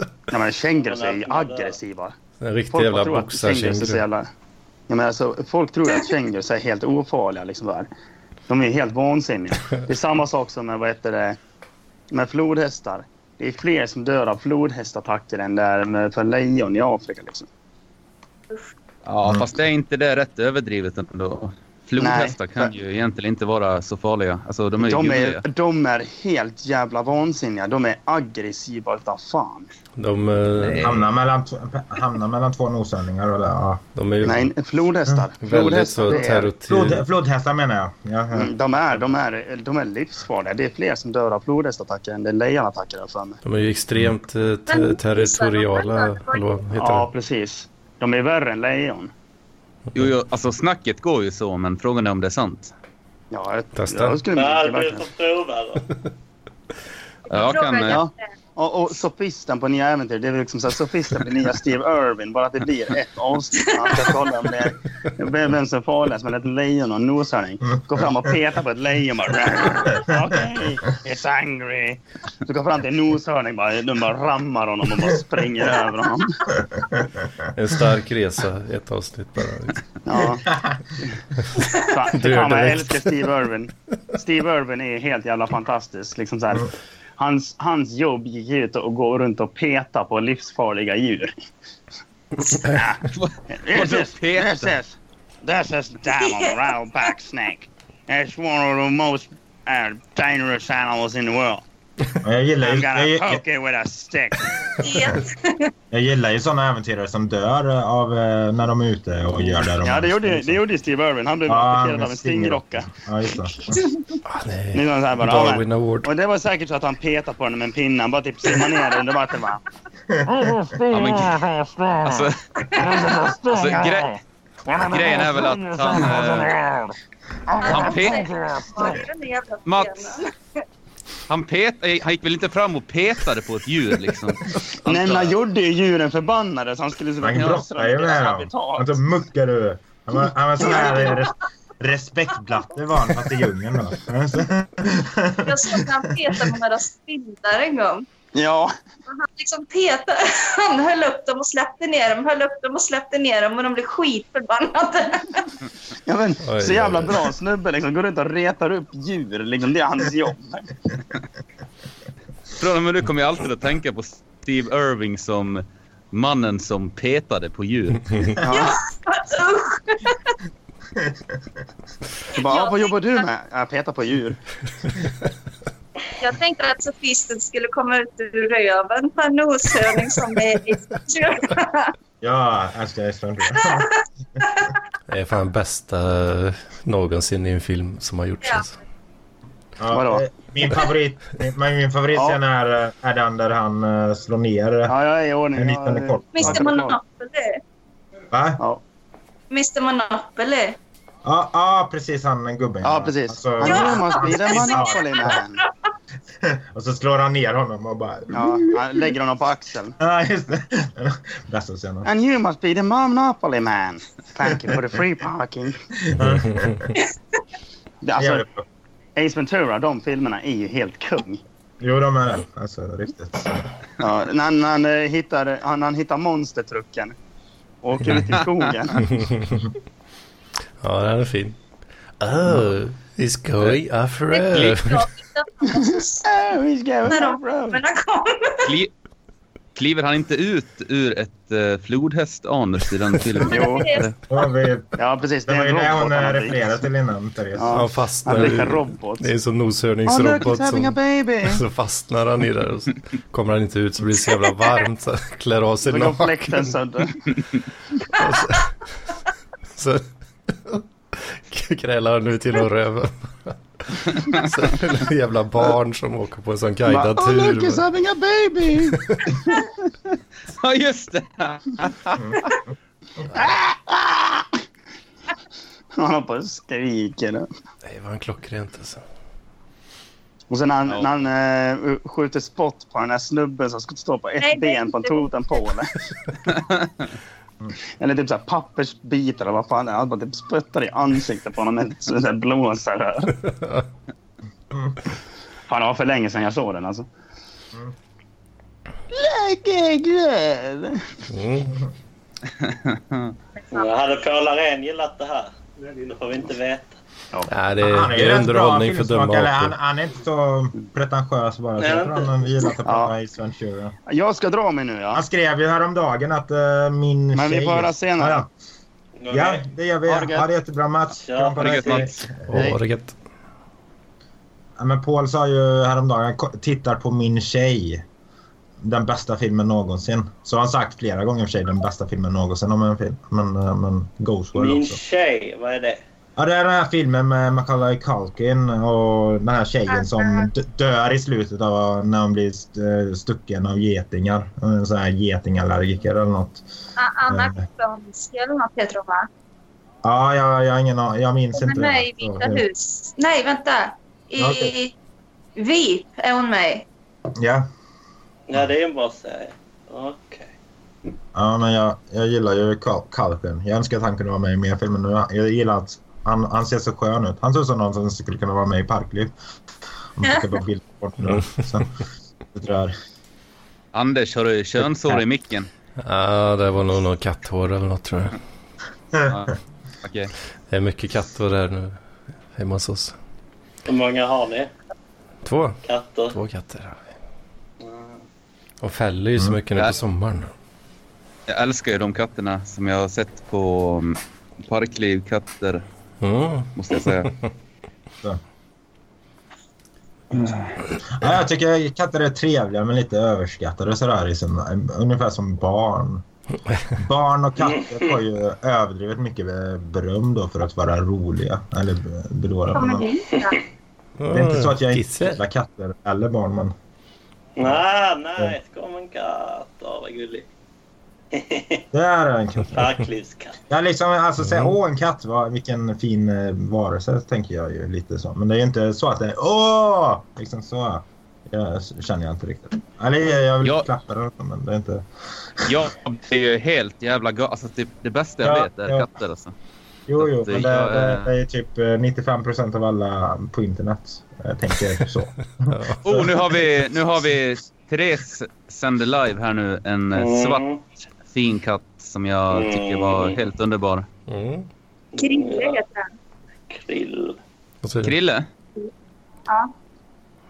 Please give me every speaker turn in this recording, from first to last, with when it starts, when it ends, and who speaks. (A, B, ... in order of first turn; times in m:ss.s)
0:00.3-0:02.1 A
0:00.8-0:01.8 B
0:02.4-0:04.0 C
0:02.7-0:04.3 A
0:04.9-0:07.9 A
0:08.5-0:11.4 A
0:12.1-0:17.5 A
0:19.0-0:25.4 D
0:22.0-0:22.7 A
0:24.8-0:29.7 A
0:30.0-0:31.0 C
0:30.6-0:31.0 D
0:30.8-0:33.8 E
0:34.0-0:34.5 C
0:34.2-0:36.5 A
0:35.4-0:37.0 C
0:36.1-0:38.5 E
0:38.3-0:43.4 A
0:43.4-0:47.1 C
0:44.7-0:46.6 F
0:46.8-0:49.1 A
0:49.9-0:52.7 D
0:53.3-0:55.1 A
0:53.7-0:54.2 C
0:54.3-0:55.9 B
0:57.3-0:58.3 F
0:57.3-0:58.0 D
0:57.9-1:16.5 A
1:03.6-1:04.1 F
1:16.5-1:17.2 E
1:17.5-1:19.8 C
1:20.0-1:21.2 A
1:20.5-1:20.8 E
1:21.7-1:31.3 A
1:22.1-1:23.1 C
1:32.4-1:41.6 A
1:33.0-1:34.7 D
1:36.2-1:36.7 F
1:42.2-1:43.4 E
1:42.6-1:44.8 A
1:44.8-1:45.7 F
1:45.9-1:50.6 E
1:49.7-1:52.9 A
1:51.4-1:53.9 E
1:54.3-1:56.1 C
1:54.7-1:59.6 A
2:00.1-2:00.8 E
2:00.9-2:06.6 D
2:02.6-2:02.9 F
2:07.6-2:10.3 F
2:07.6-2:08.8 D
2:09.6-2:10.1 D
2:11.3-2:15.4 D
2:14.8-2:19.0 A
2:17.2-2:26.5 E
2:20.6-2:21.1 A
2:25.4-2:28.0 F
2:28.3-2:28.7 A
2:29.1-2:35.6 F
2:36.0-2:40.7 A
2:36.4-2:37.2 C
2:42.6-2:48.4 D
2:48.4-2:48.7 E
2:48.4-2:50.3 F
2:50.9-2:51.4 E
2:52.3-2:53.2 F
2:52.3-2:54.4 A
2:56.2-3:01.9 F
3:02.2-3:03.9 E
3:03.5-3:04.8 F
3:05.1-3:08.7 C
3:09.8-3:15.0 E
3:09.9-3:10.2 A
3:14.9-3:17.0 A
3:15.5-3:16.7 E
3:16.3-3:17.6 F
3:18.3-3:18.6 E
3:19.5-3:20.8 F
3:21.2-3:25.4 E
3:22.8-3:25.6 A
3:23.6-3:25.7 F
3:26.4-3:28.8 E
3:28.3-3:29.9 A
3:30.0-3:32.1 E
3:32.0-3:35.8 A
3:36.0-3:36.9 E
3:38.0-3:38.4 A
3:38.2-3:38.6 E
3:39.2-3:41.4 A
3:41.8-3:43.6 E
3:44.0-3:47.2 A
3:47.8-3:49.1 A
3:49.2-3:49.6 C
3:50.8-3:51.6 C
3:52.2-3:55.0 C
3:54.3-3:56.3 F
3:55.8-3:57.8 A
3:57.0-3:58.7 F
3:58.6-3:58.9 D
3:59.7-4:04.1 D
4:03.4-4:04.1 F
4:03.5-4:03.9 A
4:04.3-4:07.8 E
4:05.0-4:06.6 A
4:07.6-4:09.3 A
4:07.7-4:16.7 C
4:10.1-4:11.6 A
4:15.8-4:17.4 A
4:18.0-4:18.7 C
4:19.7-4:27.8 C
4:26.9-4:29.7 A
4:28.9-4:29.3 C
4:30.5-4:32.5 D
4:33.3-4:34.5 A
4:35.9-4:37.5 A
4:37.8-4:39.0 C
4:40.5-4:45.9 A
4:44.4-4:45.6 F
4:48.0-4:53.5 A
4:54.7-4:55.0 E
4:55.7-4:57.1 A
4:59.1-5:01.0 A
5:01.3-5:01.8 C
5:02.5-5:03.3 D
5:03.6-5:03.9 F
5:03.7-5:07.0 B
5:07.5-5:09.7 C
5:07.8-5:14.0 E
5:11.8-5:12.3 B
5:12.8-5:13.1 A
5:14.1-5:15.2 A
5:15.1-5:18.5 E
5:17.3-5:18.4 A
5:19.2-5:19.6 B
5:19.3-5:22.7 E
5:20.1-5:20.5 A
5:21.1-5:22.1 B
5:21.6-5:22.1 D
5:22.5-5:23.2 C
5:24.8-5:28.0 E
5:28.8-5:35.0 E
5:34.5-5:36.0 B
5:36.4-5:46.6 E
5:39.9-5:40.5 F
5:47.0-5:49.3 F
5:47.3-5:47.6 E
5:50.0-5:52.6 E
5:51.5-5:54.9 F
5:54.4-5:54.7 E
5:55.6-5:56.8 F
5:57.4-5:57.7 E
5:58.5-6:00.5 B
6:01.3-6:09.3 E
6:10.2-6:11.9 E
6:10.2-6:10.6 F
6:12.5-6:12.9 E
6:13.9-6:15.7 D
6:16.0-6:18.4 C
6:19.1-6:19.4 E
6:19.3-6:20.3 D
6:20.7-6:22.0 C
6:22.5-6:23.2 C
6:23.8-6:24.7 B
6:25.4-6:27.0 C
6:25.8-6:26.3 B
6:27.8-6:28.2 B
6:28.8-6:30.5 C
6:31.5-6:35.8 D
6:36.2-6:36.7 C
6:36.8-6:37.3 D
6:40.3-6:46.2 E
6:46.9-6:53.1 E
6:47.6-6:48.1 B
6:52.7-6:53.6 F
6:54.2-6:55.4 C
6:54.3-6:56.7 E
6:57.6-7:00.5 B
7:01.3-7:01.8 B
7:01.9-7:02.9 E
7:02.7-7:03.6 B
7:03.7-7:15.0 E
7:04.4-7:04.7 C
7:15.6-7:19.5 D
7:18.4-7:19.1 E
7:20.1-7:26.6 E
7:20.2-7:21.3 D
7:25.7-7:26.0 C
7:26.0-7:30.6 D
7:30.1-7:30.8 B
7:31.2-7:34.0 D
7:32.5-7:33.4 B
7:34.3-7:34.7 C
7:35.2-7:35.8 B
7:35.2-7:36.1 F
7:36.7-7:37.4 B
7:37.8-7:38.1 C
7:38.0-7:38.5 D